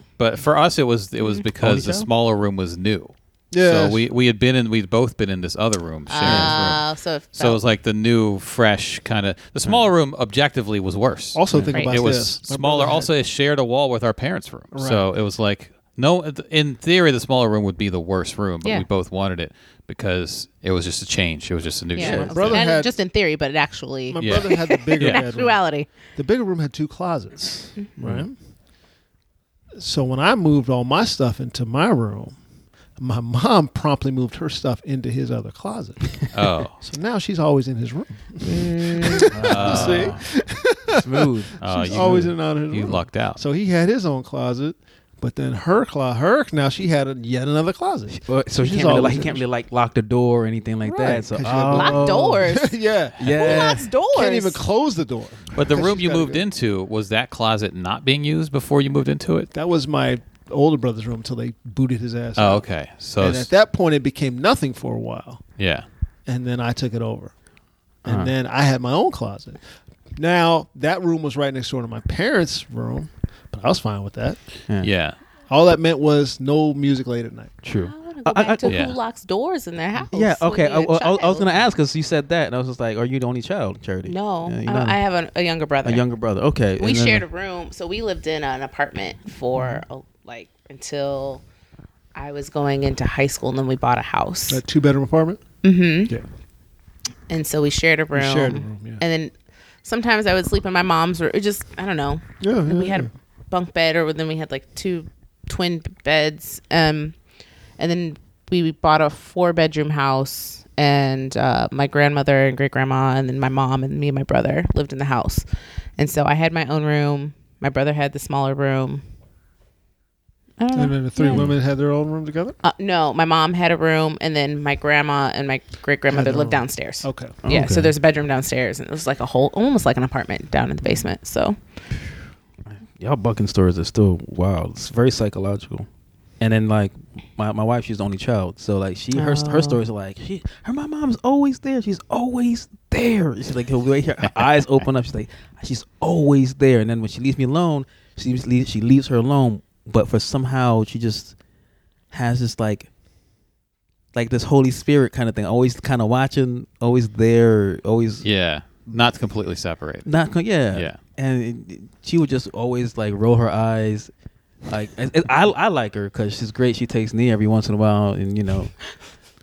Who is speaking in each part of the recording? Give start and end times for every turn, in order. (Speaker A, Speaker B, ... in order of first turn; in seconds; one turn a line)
Speaker A: 0.2-22.7
Speaker B: 1.6-2.1
Speaker C: 3.5-4.0
Speaker D: 6.1-7.6
Speaker B: 6.2-6.8
Speaker C: 11.3-13.1
Speaker D: 11.7-12.0
Speaker C: 14.7-15.1
Speaker D: 21.9-25.9
Speaker B: 22.0-22.3
Speaker C: 22.3-22.9
Speaker C: 24.1-28.3
Speaker A: 24.2-25.2
Speaker B: 28.0-28.3
Speaker C: 29.8-32.4
Speaker C: 33.0-36.1
Speaker A: 36.3-36.8
Speaker C: 36.8-49.4
Speaker D: 38.4-39.3
Speaker B: 39.3-40.2
Speaker A: 39.4-40.2
Speaker B: 41.0-42.3
Speaker A: 41.6-43.4
Speaker B: 48.1-52.5
Speaker C: 50.8-56.4
Speaker D: 51.7-52.7
Speaker B: 53.2-53.8
Speaker D: 53.3-54.6
Speaker A: 55.5-59.5
Speaker C: 59.5-62.6
Speaker A: 62.4-63.5
Speaker C: 63.2-65.4
Speaker A: 65.6-65.8
Speaker C: 66.2-67.3
Speaker C: 68.0-69.6
Speaker B: 68.0-68.3
Speaker C: 70.2-74.4
Speaker A: 74.8-75.2
Speaker C: 75.5-77.5
Speaker B: 77.6-78.8
Speaker D: 77.8-81.5
Speaker A: 78.6-79.0
Speaker B: 80.1-85.0
Speaker D: 84.0-86.0
Speaker B: 85.8-87.2
Speaker D: 86.8-91.4
Speaker D: 92.1-94.6
Speaker C: 94.5-95.4
Speaker D: 95.6-96.1
Speaker D: 97.3-99.3
Speaker C: 98.1-99.0
Speaker D: 99.8-107.2
Speaker C: 102.4-103.1
Speaker D: 107.8-115.4
Speaker D: 116.0-119.0
Speaker D: 120.6-121.5
Speaker C: 120.7-122.6
Speaker D: 122.6-131.6
Speaker C: 126.1-127.4
Speaker B: 127.4-127.9
Speaker B: 132.7-135.9
Speaker B: 136.4-151.3
Speaker D: 139.1-139.8
Speaker B: 152.1-152.9
Speaker B: 154.1-158.2
Speaker A: 158.2-160.1
Speaker B: 160.0-164.1
Speaker A: 160.7-161.0
Speaker B: 164.7-168.9